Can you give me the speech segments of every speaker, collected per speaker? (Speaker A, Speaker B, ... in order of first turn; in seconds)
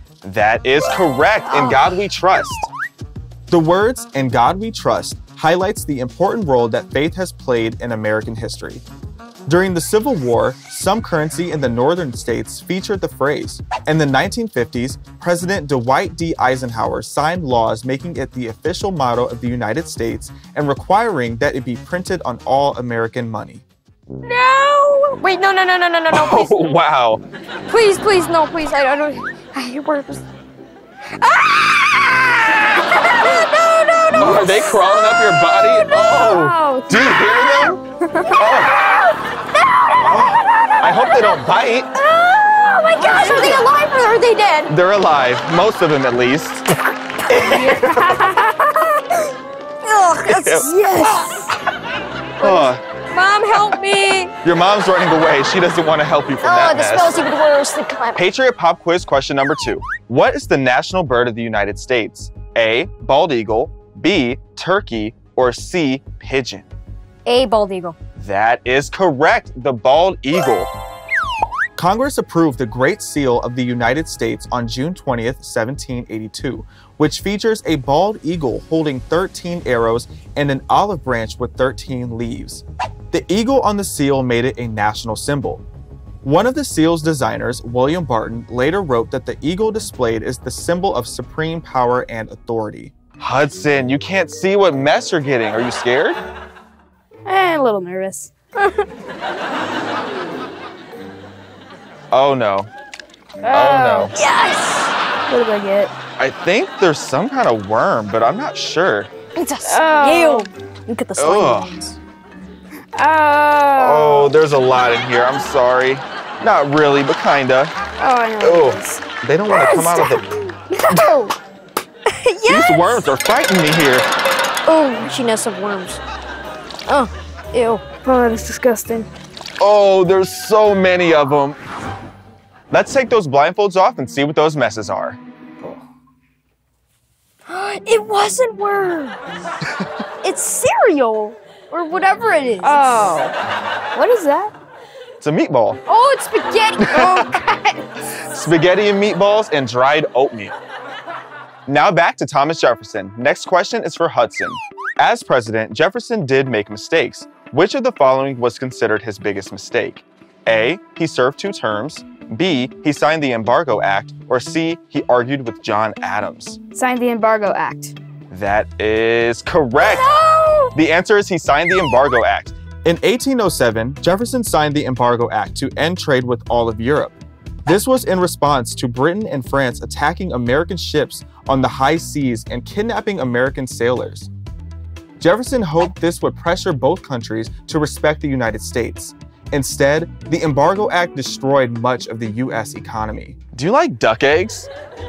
Speaker A: 0.2-2.7, 3.5-8.8, 9.4-23.6, 26.1-27.2, 34.2-37.8, 38.3-38.9, 40.0-41.9, 44.7-46.7, 47.3-48.4, 50.3-50.7, 52.4-52.8, 54.4-57.2, 58.1-66.7, 68.2-70.7, 71.8-85.6, 86.2-96.2, 102.1-102.7, 103.5-104.1, 106.2-109.1, 111.2-111.7, 113.8-117.7, 118.4-120.3, 120.8-121.1, 122.5-124.1, 129.6-131.6, 132.7-135.2, 145.2-145.8, 146.8-147.2, 148.2-150.6, 151.7-166.6, 168.3-170.1, 170.7-184.3, 185.2-194.7
Speaker B: 24.2-26.6, 27.7-30.2, 31.2-35.7, 38.5-41.4, 42.0-44.7, 49.8-51.5, 52.4-54.3, 56.4-58.2, 67.2-68.0, 98.6-98.8, 104.1-104.9, 109.3-112.0, 119.5-120.2, 122.1-123.1, 124.7-126.0, 126.8-127.8, 137.5-139.2, 140.2-143.2, 145.9-147.8, 169.8-170.7
Speaker C: 35.7-37.5, 38.0-38.4, 43.0-43.6, 47.5-48.6, 50.8-51.3, 97.2-98.3, 103.4-104.1, 105.3-105.9, 109.6-110.5, 113.0-114.4, 118.0-119.0, 120.8-121.3, 128.0-129.1, 142.6-143.3, 143.9-144.5, 166.7-167.9